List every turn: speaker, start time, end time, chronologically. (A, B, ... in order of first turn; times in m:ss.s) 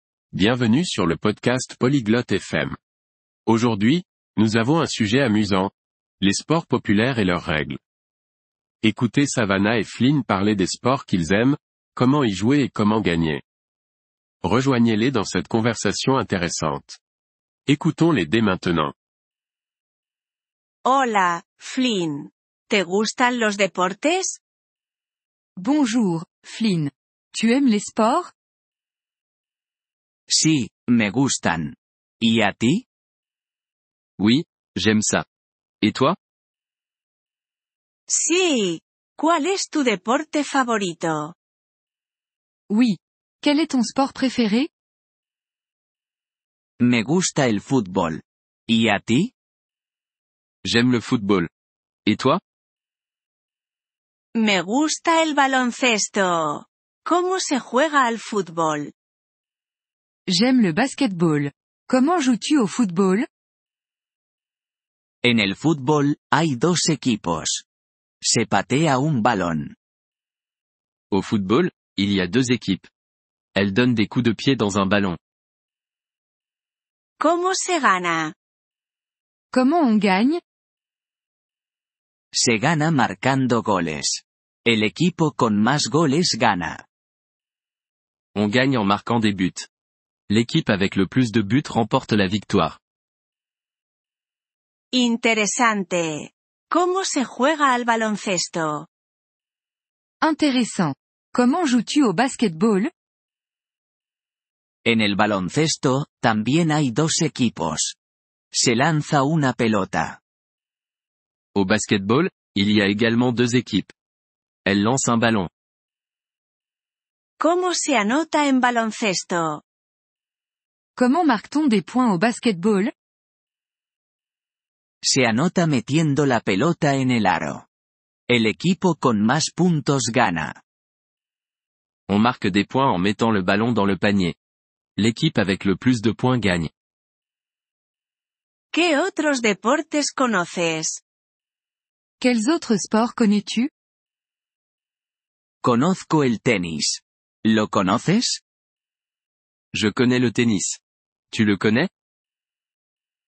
0:00.3-0:02.8 A
0:03.4-0:07.8 A
0:08.8-0:13.4 A
0:14.4-0:17.0 A
0:17.7-0:18.9 A
0:20.8-0:24.4 B
0:25.6-0:28.3 C
0:30.3-0:32.8 D
0:34.2-0:35.2 E
0:35.8-0:36.2 E
0:38.1-0:41.3 B
0:42.7-0:44.7 C
0:46.8-0:49.3 D
0:50.6-0:51.5 E
0:52.0-0:52.4 E
0:54.3-0:58.9 B
1:00.3-1:03.3 C
1:05.2-1:07.6 D
1:08.2-1:09.7 D
1:11.1-1:12.9 E
1:13.5-1:15.2 E
1:17.2-1:18.3 B
1:19.5-1:20.4 C
1:22.3-1:26.8 D
1:28.3-1:29.7 E
1:30.3-1:32.8 E
1:34.9-1:38.9 B
1:40.2-1:42.9 C
1:44.8-1:48.0 D
1:48.5-1:50.2 D
1:51.5-1:53.9 E
1:54.6-1:55.5 E
1:57.4-1:59.6 B
2:00.9-2:02.9 C
2:05.0-2:07.6 D
2:08.3-2:10.6 D
2:12.1-2:14.3 E
2:15.0-2:16.7 E
2:18.7-2:21.0 B
2:22.2-2:23.7 C
2:25.6-2:28.4 D
2:29.7-2:30.8 E
2:31.3-2:31.9 E